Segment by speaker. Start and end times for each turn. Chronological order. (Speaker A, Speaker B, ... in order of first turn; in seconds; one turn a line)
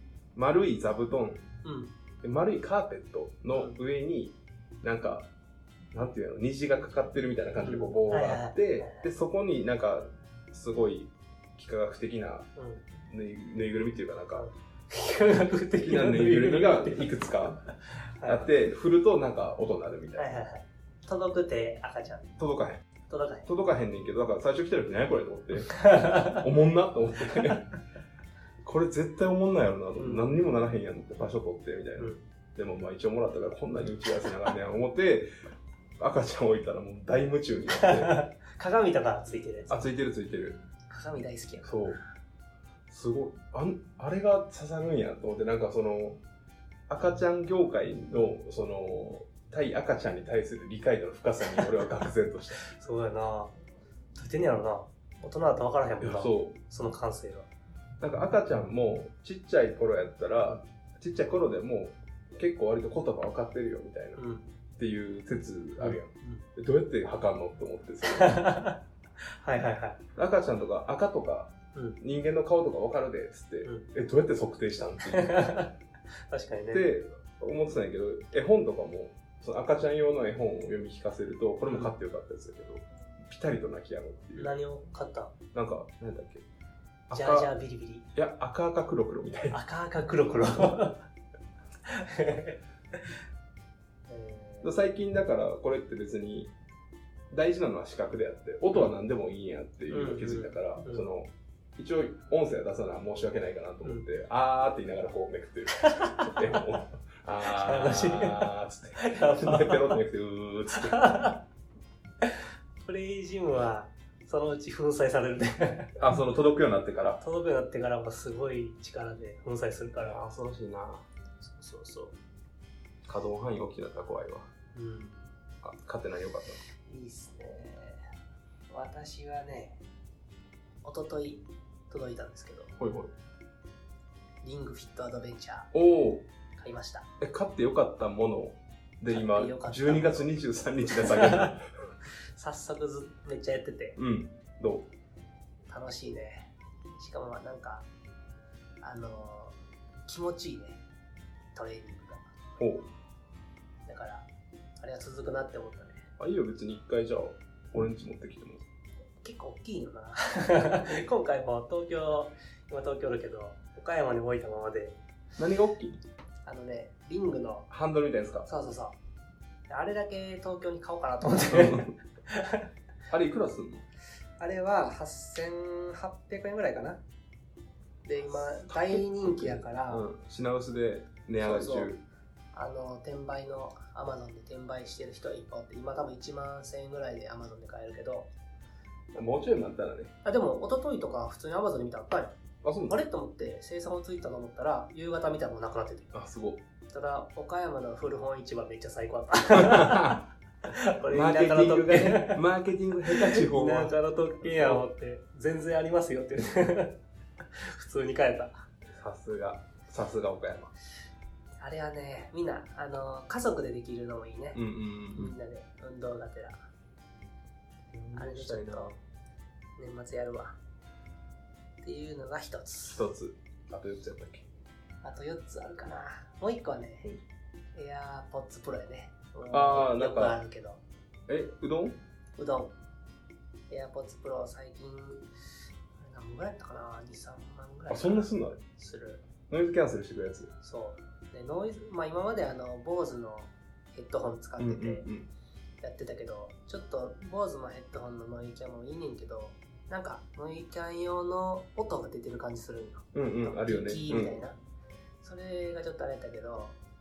Speaker A: 0.3-1.5
Speaker B: 1.6-1.9
Speaker A: 2.2-5.3
Speaker B: 3.5-3.8
Speaker A: 5.9-12.5
Speaker B: 7.6-9.1
Speaker B: 12.6-12.8
Speaker A: 13.1-14.5
Speaker B: 14.3-17.1
Speaker A: 15.8-17.7
Speaker B: 17.9-18.5
Speaker A: 18.2-20.3
Speaker B: 20.2-22.3
Speaker A: 22.4-22.8
Speaker B: 23.1-23.5
Speaker A: 23.5-27.7
Speaker B: 25.8-26.4
Speaker A: 28.6-35.3
Speaker B: 30.0-30.3
Speaker A: 36.0-38.2
Speaker B: 37.7-39.9
Speaker A: 39.7-40.6
Speaker B: 40.9-42.0
Speaker A: 41.6-42.0
Speaker A: 42.9-46.2
Speaker A: 46.9-52.6
Speaker B: 52.6-53.5
Speaker B: 54.1-57.5
Speaker A: 56.0-56.6
Speaker A: 58.0-64.2
Speaker B: 64.2-64.5
Speaker A: 64.8-68.4
Speaker B: 65.8-66.5
Speaker B: 68.1-68.8
Speaker B: 69.4-70.0
Speaker A: 70.2-75.5
Speaker B: 75.1-75.7
Speaker B: 76.3-76.8
Speaker A: 76.7-84.6
Speaker B: 81.6-81.9
Speaker B: 84.4-85.3
Speaker A: 85.5-86.5
Speaker A: 87.1-87.5
Speaker B: 87.1-88.1
Speaker A: 88.2-89.6
Speaker B: 89.5-91.1
Speaker B: 91.9-92.6
Speaker B: 94.1-94.8
Speaker A: 94.6-96.5
Speaker A: 97.3-111.1
Speaker B: 99.9-101.0
Speaker B: 105.8-106.4
Speaker B: 107.4-110.0
Speaker B: 110.7-111.4
Speaker B: 112.2-116.0
Speaker A: 116.0-117.2
Speaker B: 117.2-120.2
Speaker A: 120.0-121.1
Speaker B: 121.4-122.2
Speaker A: 123.1-124.5
Speaker B: 124.8-125.2
Speaker A: 125.6-126.6
Speaker B: 126.9-128.1
Speaker B: 128.7-129.8
Speaker B: 130.8-132.7
Speaker A: 132.8-133.1
Speaker B: 134.4-135.7
Speaker A: 135.7-136.3
Speaker B: 136.6-137.1
Speaker A: 137.2-141.7
Speaker B: 139.1-140.3
Speaker B: 140.9-141.5
Speaker B: 142.4-144.0
Speaker A: 144.0-144.9
Speaker B: 145.7-147.9
Speaker B: 148.8-150.8
Speaker B: 151.6-152.3
Speaker A: 152.6-152.9
Speaker B: 153.9-154.3
Speaker B: 154.8-156.1
Speaker A: 156.2-158.6
Speaker B: 159.2-165.0
Speaker A: 165.4-166.0
Speaker B: 166.5-167.7
Speaker A: 167.7-168.5
Speaker B: 168.5-169.0
Speaker B: 169.7-172.7
Speaker A: 171.4-172.0
Speaker A: 173.1-173.8
Speaker B: 174.4-177.0
Speaker B: 178.0-180.1
Speaker A: 178.5-182.0
Speaker B: 181.4-181.9
Speaker B: 182.5-188.3
Speaker A: 189.1-190.2
Speaker B: 190.2-192.4
Speaker A: 192.6-193.0
Speaker B: 192.9-196.2
Speaker A: 196.1-196.6
Speaker B: 196.9-202.4
Speaker A: 199.5-200.2
Speaker A: 201.1-204.9
Speaker B: 203.1-207.0
Speaker B: 207.6-208.6
Speaker A: 209.0-210.7
Speaker B: 211.6-216.6
Speaker A: 214.6-215.4
Speaker A: 217.9-219.0
Speaker B: 218.2-218.9
Speaker B: 219.8-220.6
Speaker B: 221.8-223.1
Speaker A: 222.9-224.5
Speaker B: 225.0-227.2
Speaker B: 227.7-230.8
Speaker A: 229.5-230.4
Speaker A: 231.3-232.0
Speaker B: 232.4-232.7
Speaker B: 233.7-235.3
Speaker B: 236.0-239.2
Speaker A: 237.9-238.6
Speaker A: 239.5-240.5
Speaker B: 240.6-245.1
Speaker A: 244.6-245.3
Speaker B: 245.8-254.6
Speaker A: 253.1-254.4
Speaker B: 255.2-256.8